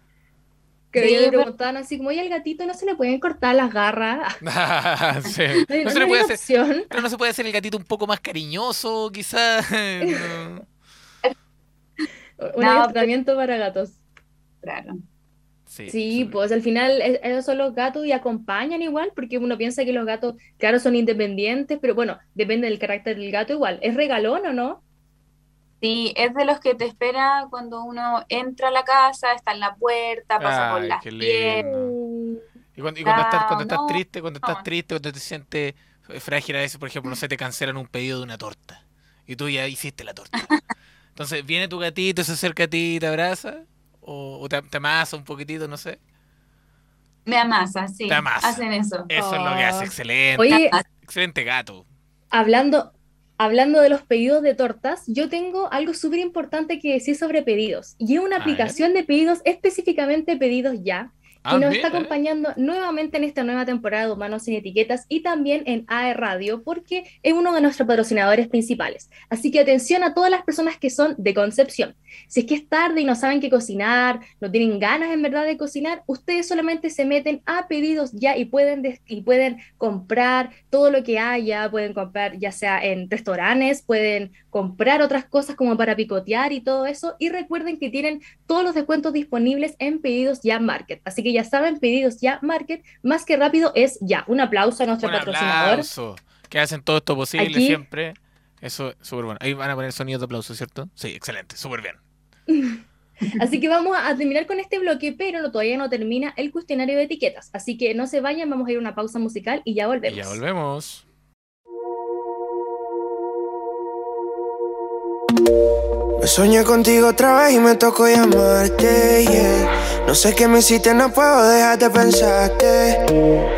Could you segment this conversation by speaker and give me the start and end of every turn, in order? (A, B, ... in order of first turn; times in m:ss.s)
0:00.9-0:04.4 A
0:01.0-0:01.5 B
0:04.4-0:10.6 C
0:05.7-0:06.9 A
0:12.4-0:14.0 A
0:12.6-0:13.1 B
0:14.6-0:15.0 B
0:15.7-0:16.4 C
0:15.9-0:24.8 A
0:25.8-0:31.7 B
0:30.4-0:32.0 C
0:31.6-0:32.4 A
0:32.8-0:40.5 C
0:33.0-0:34.7 B
0:41.2-0:46.0 C
0:47.2-0:49.1 B
0:48.1-0:51.8 C
0:49.1-0:50.7 A
0:50.5-0:50.8 B
0:52.3-1:35.9 A
0:58.4-0:58.8 C
1:01.4-1:02.1 C
1:35.0-1:42.0 C
1:37.4-1:37.8 A
1:42.5-1:50.4 A
1:50.1-1:51.0 C
1:56.2-2:03.0 D